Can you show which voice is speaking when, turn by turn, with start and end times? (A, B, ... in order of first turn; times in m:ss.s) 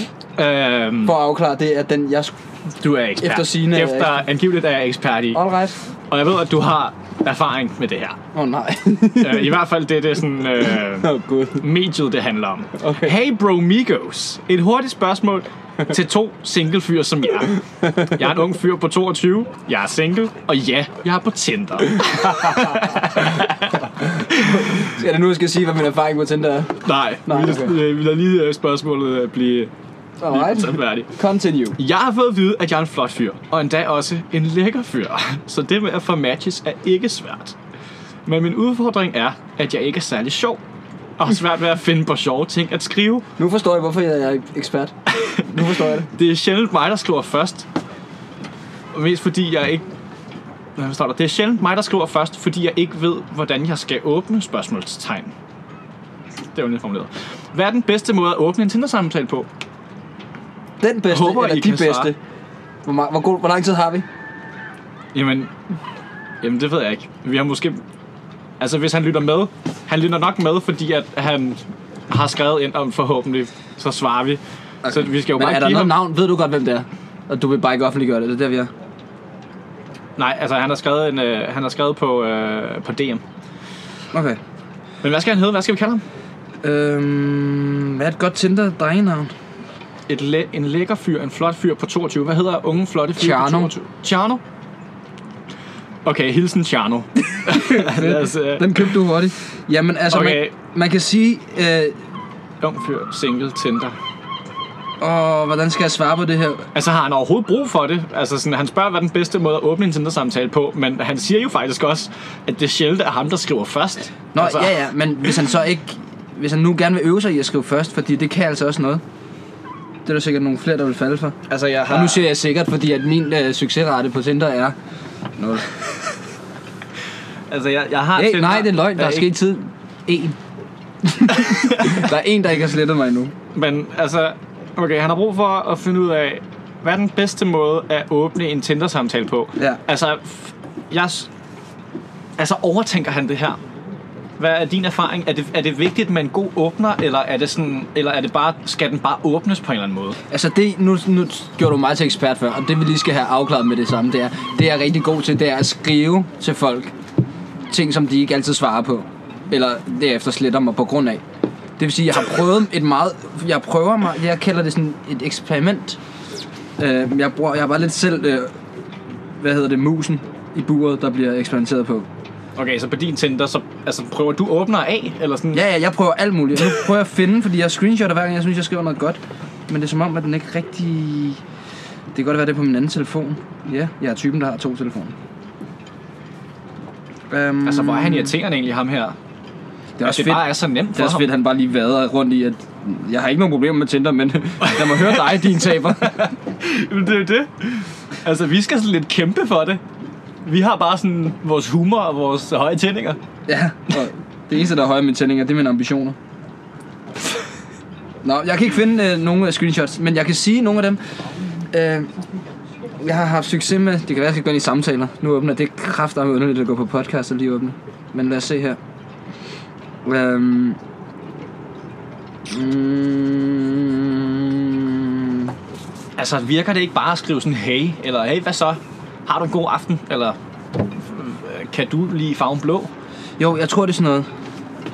0:00.4-0:01.2 A
0:01.0-0:02.3 B
0:02.8-0:05.4 A
0:03.2-0:04.1 B
0:05.3-0:05.8 B
0:06.1-0:08.2 A
0:08.3-0:09.6 B
0:09.2-0:24.8 A
0:10.8-0:11.6 B
0:12.8-0:13.2 B
0:22.2-0:23.1 B
0:24.1-0:27.8 B
0:26.8-0:29.7 A
0:30.2-0:31.8 B
0:30.3-0:31.1 A
0:31.8-0:37.6 A
0:38.3-0:40.6 A
0:41.2-0:43.3 A
0:43.4-0:46.1 B
0:45.1-0:47.7 A
0:48.9-0:49.8 A
0:50.8-0:55.3 A
0:56.6-0:59.5 A
1:00.8-1:02.2 B
1:01.1-1:02.1 A
1:02.8-1:04.1 B
1:05.1-1:05.6 A
1:06.4-1:07.8 A
1:08.6-1:16.0 A
1:14.8-1:18.7 B
1:20.2-1:23.2 A
1:24.1-1:24.4 B
1:25.0-1:26.0 A
1:26.6-1:29.3 B
1:30.1-1:34.4 A
1:33.2-1:33.7 B
1:36.0-1:39.0 A
1:37.4-1:42.0 B
1:40.1-1:40.5 A
1:42.6-1:44.0 A
1:45.0-1:46.7 B
1:46.8-1:55.4 A
1:54.4-1:59.0 B
2:00.1-2:01.4 B
2:01.5-2:02.3 A
2:01.9-2:04.8 B
2:05.4-2:05.8 B
2:07.5-2:09.3 A
2:08.2-2:10.4 B
2:11.0-2:13.3 B
2:11.4-2:12.0 A
2:13.6-2:21.3 A
2:22.4-2:23.6 A
2:24.4-2:30.2 A
2:30.3-2:36.9 B
2:37.7-2:41.2 B
2:41.8-2:46.0 B
2:46.8-2:48.5 B
2:49.4-2:52.1 B
2:52.6-2:55.7 A
2:55.5-3:01.4 B
3:02.1-3:05.2 B
3:07.3-3:08.4 B
3:07.6-3:09.2 A
3:10.0-3:16.3 B
3:10.0-3:11.3 A
3:14.6-3:19.8 A
3:20.4-3:23.2 A
3:23.5-3:26.2 B
3:28.2-3:31.0 B
3:31.7-3:32.1 B
3:33.0-3:38.8 B
3:40.0-3:40.8 B
3:42.5-3:45.5 B
3:46.2-3:52.9 A
3:53.4-3:54.3 B